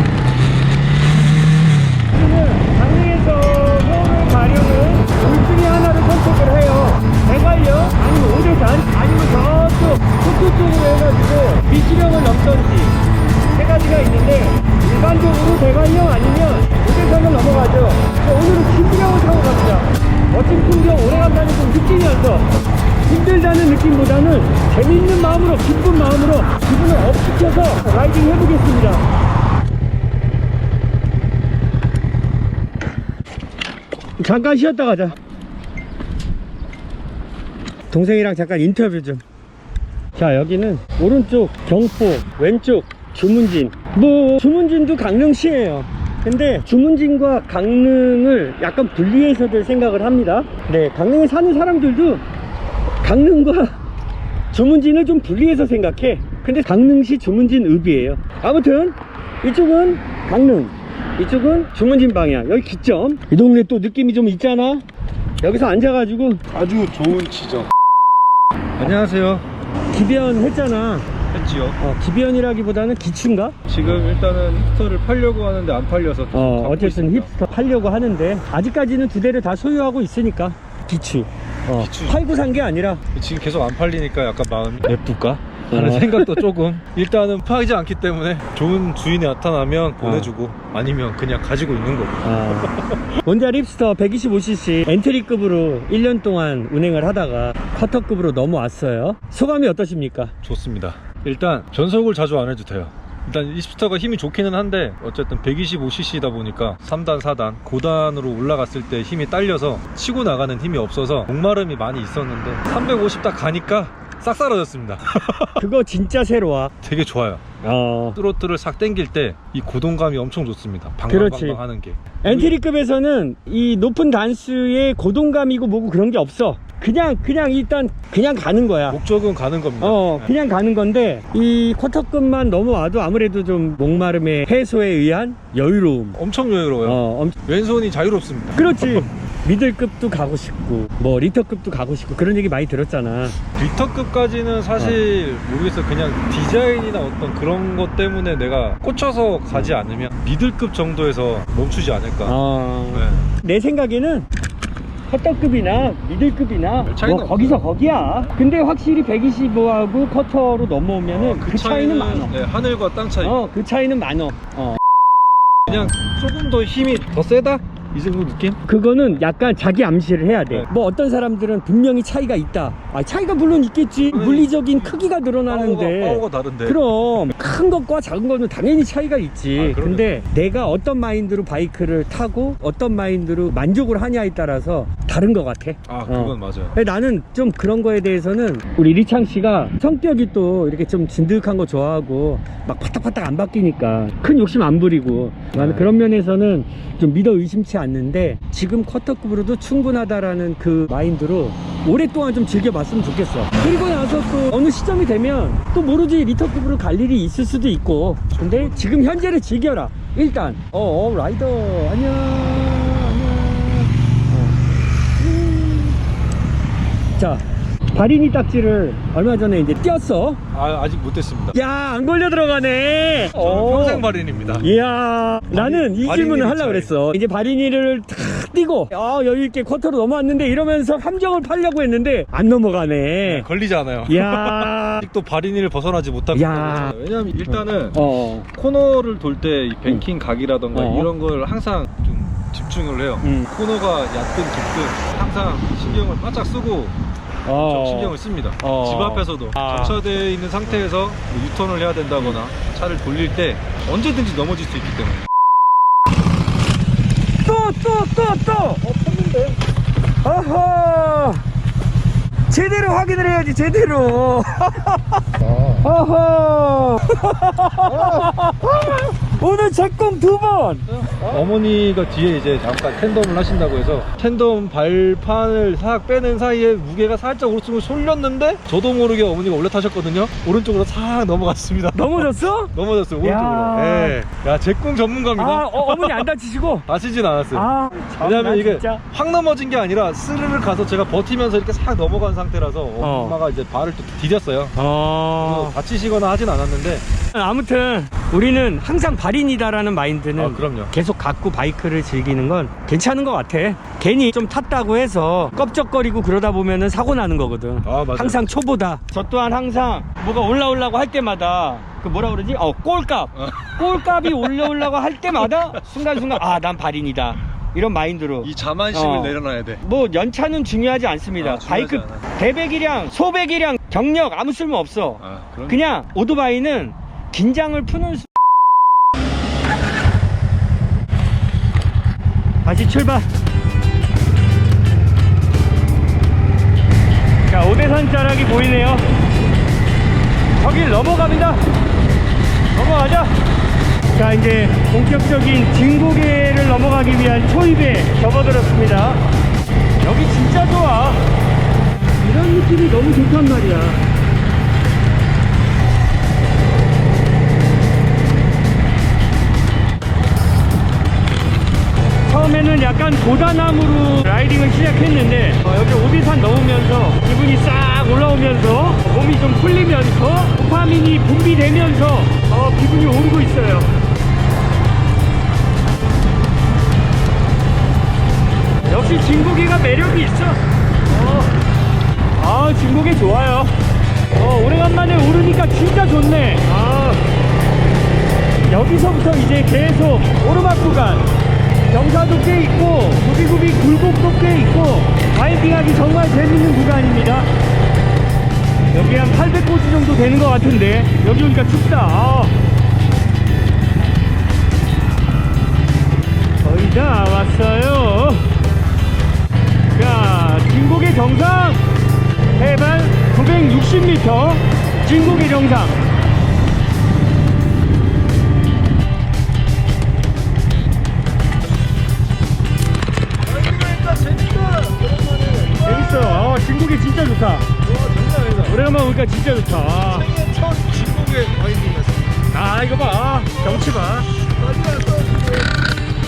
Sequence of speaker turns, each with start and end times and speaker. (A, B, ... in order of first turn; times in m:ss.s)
0:02.1-0:13.0 A
0:13.5-0:22.5 A
0:23.0-0:29.0 A
0:34.2-0:35.2 A
0:37.9-0:39.2 A
0:40.2-0:52.2 A
0:53.0-0:53.7 A
0:54.5-1:04.8 A
1:05.4-1:06.4 A
1:06.5-1:07.7 B
1:08.8-1:09.4 B
1:09.9-1:11.1 A
1:11.3-1:11.8 B
1:11.8-1:13.6 A
1:13.7-1:17.3 B
1:16.3-1:23.0 A
1:21.8-1:22.3 B
1:23.1-1:33.0 B
1:25.7-1:26.4 A
1:30.0-1:30.3 A
1:32.2-1:40.3 A
1:40.4-1:55.6 B
1:55.6-1:56.7 A
1:56.8-1:57.4 B
1:57.6-1:58.2 A
1:58.2-2:02.6 B
2:01.1-2:01.6 A
2:02.2-2:09.0 A
2:08.9-2:10.3 B
2:09.8-2:16.2 A
2:16.2-2:19.0 B
2:16.8-2:17.4 A
2:18.5-2:23.4 A
2:23.6-2:32.4 B
2:32.2-2:34.3 A
2:32.9-2:33.3 B
2:35.1-2:42.4 A
2:36.8-2:37.6 B
2:41.0-2:43.5 B
2:43.2-2:44.8 A
2:45.7-2:48.6 B
2:48.6-3:34.6 A
2:54.1-2:56.8 B
2:59.6-3:00.2 B
3:05.9-3:06.7 B
3:15.6-3:15.9 B
3:28.3-3:29.0 B
3:35.2-3:36.0 A
3:37.2-3:40.4 A
3:40.5-3:41.6 B
3:41.5-3:44.0 A
3:43.3-3:44.8 B
3:44.6-3:53.5 A
3:45.5-3:46.9 B
3:53.2-4:07.0 B
3:54.1-3:55.0 A
3:56.3-3:57.0 A
3:57.5-3:58.5 A
4:00.7-4:01.1 A
4:03.2-4:03.5 A
4:07.4-4:10.0 A
4:07.6-4:15.3 B
4:17.4-4:19.0 A
4:18.9-4:19.5 B
4:20.2-4:21.4 A
4:22.5-4:25.2 A
4:25.4-4:25.8 B
4:25.8-4:31.4 A
4:30.9-4:46.3 B
4:41.9-4:42.7 A
4:43.2-4:44.2 A
4:45.4-4:46.8 A
4:46.9-4:47.7 B
4:47.5-4:49.0 A
4:48.2-4:54.7 B
4:53.0-4:53.4 A
4:54.8-4:55.7 A
4:55.4-4:57.0 B
4:57.3-5:28.3 A
5:00.4-5:00.9 B
5:07.8-5:08.4 B
5:13.4-5:14.8 B
5:15.4-5:16.3 B
5:18.4-5:19.8 B
5:21.4-5:22.2 B
5:25.2-5:25.8 B
5:32.6-5:33.3 A
5:37.4-5:39.1 A
5:40.6-5:41.6 A
5:42.7-5:43.3 A
5:44.1-5:49.2 A
5:50.0-5:51.2 A
5:52.2-5:54.0 A
6:02.2-6:13.9 A
6:18.8-6:21.5 A
6:22.4-6:23.8 A
6:24.3-6:27.2 A
6:28.7-6:31.3 A
6:31.9-6:37.5 A
6:38.9-6:42.5 A
6:46.6-6:48.4 A
6:49.9-6:51.8 A
6:52.6-6:56.0 A
7:03.4-7:06.6 B
7:05.8-7:07.7 A
7:07.8-7:08.8 B
7:08.6-7:10.3 A
7:10.1-7:12.3 B
7:12.5-7:14.3 A
7:13.6-7:15.8 B